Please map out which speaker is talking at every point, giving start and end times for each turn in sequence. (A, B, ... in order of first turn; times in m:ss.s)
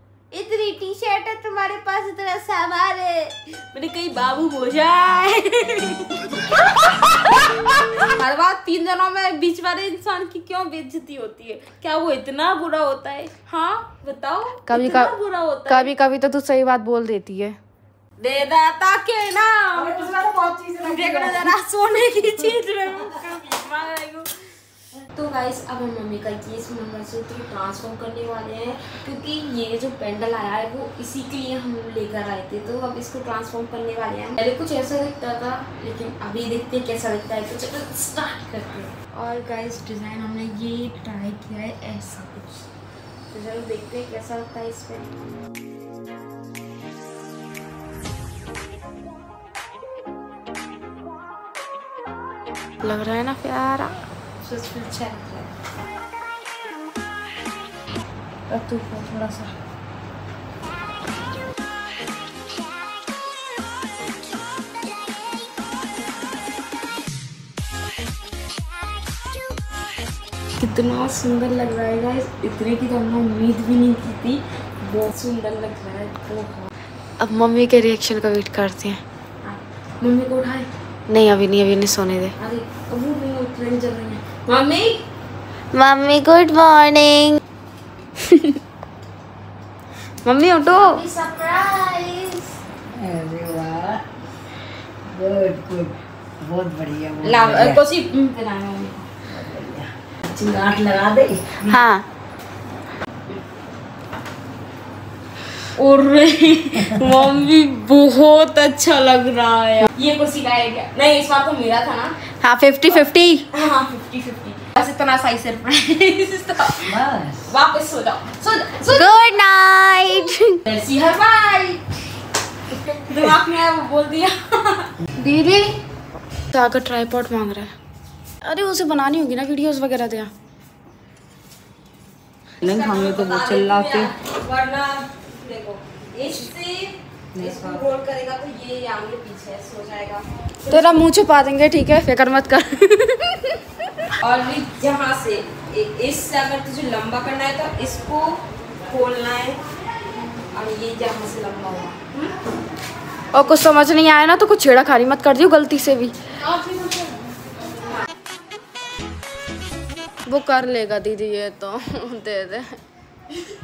0:00.3-0:06.5 A
0:07.0-0:15.9 A
0:14.7-0:15.1 B
0:15.7-0:17.6 B
0:18.2-0:20.2 A
0:19.7-0:21.5 C
0:20.8-0:24.3 A
0:25.0-0:42.7 A
0:43.3-0:45.1 A
0:52.8-0:53.9 B
0:54.4-0:55.5 A
0:58.5-0:59.5 A
1:10.6-1:16.7 A
1:17.2-1:19.0 B
1:19.4-1:20.7 A
1:21.1-1:22.3 B
1:22.4-1:25.0 A
1:25.7-1:27.4 B
1:30.2-1:31.0 B
1:30.7-1:32.5 A
1:32.9-1:34.0 C
1:35.1-1:37.8 C
1:37.2-1:39.1 A
1:39.3-1:41.8 C
1:41.6-1:42.0 B
1:45.7-1:52.1 A
1:52.4-1:53.4 B
1:53.5-1:59.3 A
1:56.8-1:57.4 C
1:58.9-2:00.6 B
2:00.0-2:01.8 A
2:02.7-2:04.9 A
2:05.2-2:05.8 B
2:06.5-2:07.7 B
2:08.4-2:10.3 B
2:12.6-2:14.1 C
2:12.6-2:21.0 A
2:17.3-2:17.8 C
2:20.7-2:23.6 B
2:24.2-2:29.6 A
2:30.5-2:32.3 A
2:33.3-2:36.1 B
2:36.4-2:37.1 A
2:40.3-2:42.7 B